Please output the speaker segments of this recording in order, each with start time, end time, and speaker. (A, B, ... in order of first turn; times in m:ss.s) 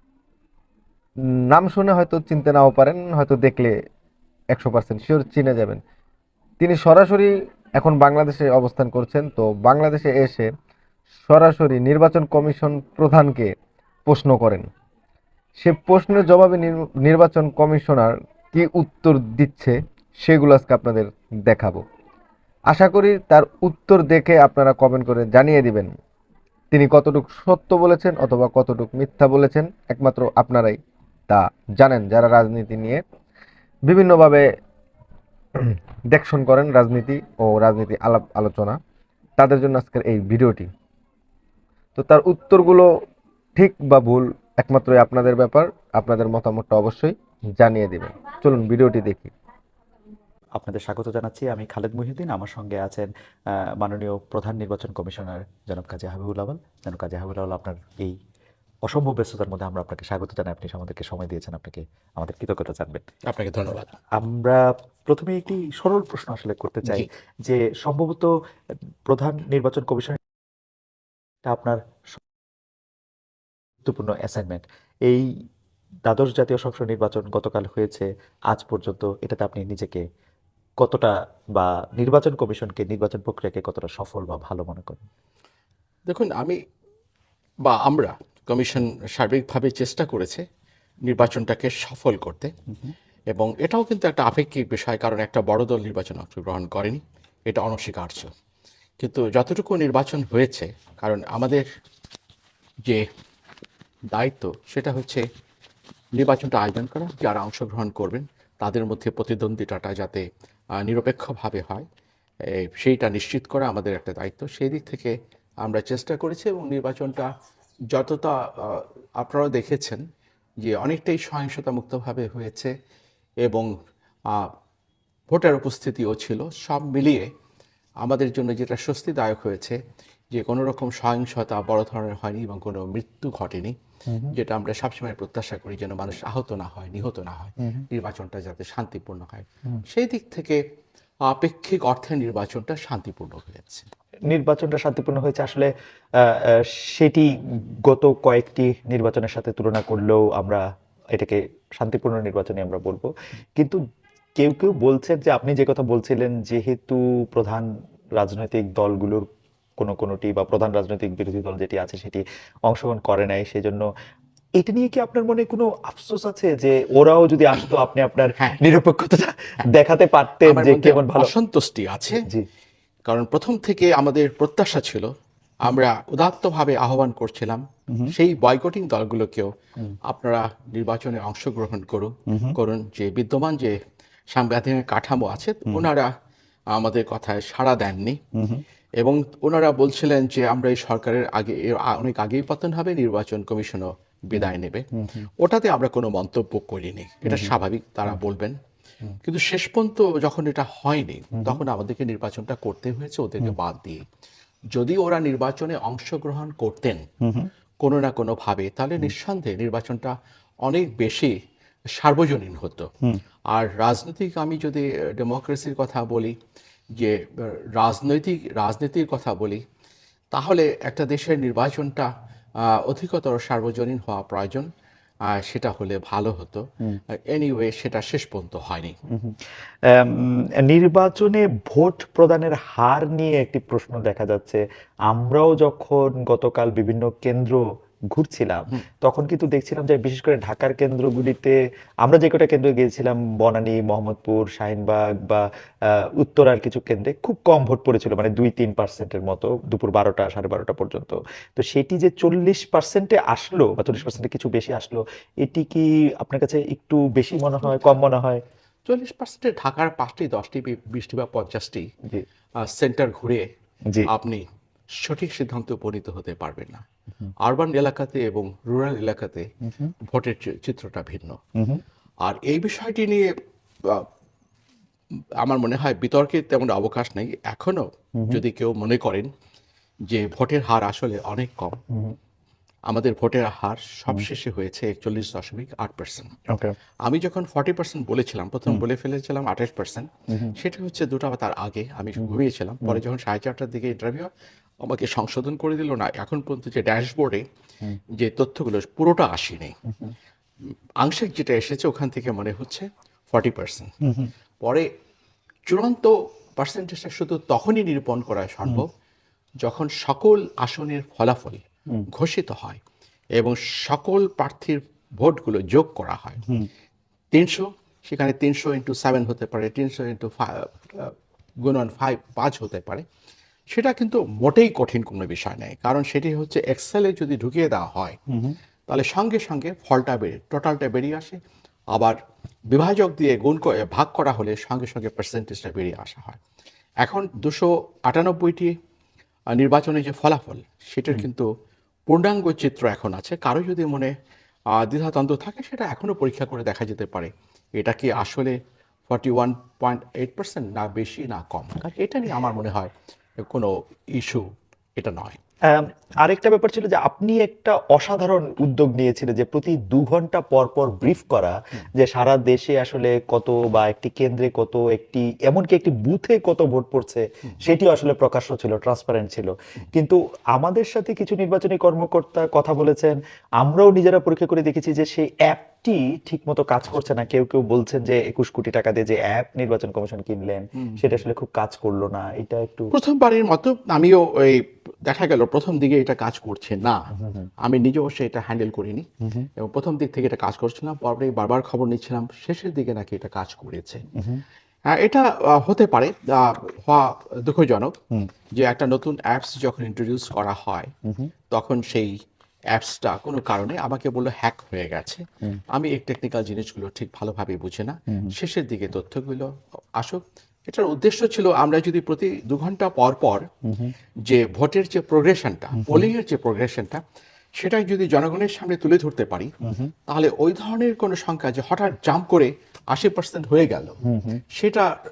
0:01.5-0:03.8 A
0:04.5-0:05.8 A
0:06.6-0:10.5 A
0:11.3-0:13.5 A
0:14.1-0:14.7 A
0:15.6-0:21.8 A
0:22.7-0:25.9 A
0:26.7-0:30.8 A
0:31.3-0:33.0 A
0:33.9-0:34.5 A
0:35.6-0:38.8 A
0:39.4-0:40.7 A
0:42.0-0:42.9 A
0:43.6-0:49.3 A
0:50.6-0:58.2 B
0:58.8-1:03.0 B
1:03.3-1:03.9 C
1:04.1-1:08.3 B
1:09.1-1:10.2 B
1:11.4-1:12.2 B
1:13.8-1:15.3 B
1:16.0-1:20.0 B
1:20.8-1:25.0 B
1:26.1-1:26.6 C
1:27.7-1:30.4 C
1:31.1-1:32.5 C
1:33.3-1:38.3 C
1:39.0-1:41.6 C
1:44.1-1:45.2 C
1:46.1-1:50.2 C
1:50.8-1:51.9 C
1:52.5-1:57.3 C
1:57.9-2:00.0 C
2:00.6-2:02.7 C
2:03.4-2:03.7 C
2:05.3-2:07.3 C
2:08.0-2:09.8 C
2:10.3-2:13.8 C
2:14.1-2:14.4 B
2:14.3-2:20.6 C
2:21.3-2:23.9 C
2:24.3-2:30.6 B
2:31.1-2:33.8 B
2:34.4-2:39.3 B
2:39.8-2:43.9 B
2:44.6-2:51.3 B
2:50.4-2:52.2 C
2:53.1-2:55.1 C
2:55.6-2:59.5 C
3:00.1-3:03.8 C
3:02.3-3:02.6 B
3:04.3-3:06.1 C
3:06.7-3:08.2 C
3:08.4-3:08.6 B
3:09.0-3:14.9 C
3:14.3-3:15.3 B
3:15.4-3:18.6 C
3:17.2-3:17.5 B
3:19.2-3:24.0 C
3:21.4-3:21.6 B
3:24.7-3:27.0 C
3:27.2-3:27.5 B
3:27.8-3:30.1 C
3:30.6-3:31.3 C
3:32.0-3:32.9 C
3:33.5-3:36.4 C
3:37.0-3:39.6 C
3:40.3-3:42.1 C
3:42.6-3:44.7 C
3:45.3-3:46.6 C
3:47.3-3:49.0 C
3:49.1-4:18.4 B
4:18.9-4:21.9 C
4:22.6-4:23.5 C
4:24.1-4:24.4 C
4:25.0-4:26.8 C
4:27.4-4:29.5 C
4:29.7-4:29.9 B
4:30.1-4:31.4 C
4:32.2-4:33.3 C
4:35.4-4:39.3 C
4:40.1-4:41.8 C
4:42.9-4:46.4 C
4:47.0-4:54.3 C
4:52.2-4:53.0 B
4:54.8-4:57.4 C
4:58.2-4:59.8 C
5:01.0-5:03.9 C
5:04.0-5:04.3 B
5:04.6-5:04.9 C
5:05.7-5:08.9 C
5:09.6-5:12.8 C
5:13.4-5:16.4 C
5:17.3-5:23.0 C
5:23.7-5:28.2 C
5:28.9-5:31.4 C
5:32.7-5:36.4 C
5:37.0-5:38.7 C
5:39.5-5:41.5 C
5:42.1-5:44.1 C
5:44.7-5:48.6 C
5:49.1-5:54.4 C
5:55.0-5:55.4 C
5:55.7-6:22.9 B
6:20.8-6:21.0 C
6:22.9-6:27.0 C
6:27.2-6:27.5 B
6:27.6-6:34.0 C
6:34.2-6:34.4 B
6:34.9-6:38.0 C
6:38.6-6:40.9 C
6:41.1-6:41.3 B
6:41.5-6:42.1 C
6:42.7-6:53.4 C
6:53.7-6:53.9 B
6:54.3-6:57.0 C
6:55.8-6:56.1 B
6:57.6-6:59.5 C
6:59.6-6:59.9 B
7:00.1-7:04.0 C
7:04.0-7:04.4 B
7:04.5-7:04.9 C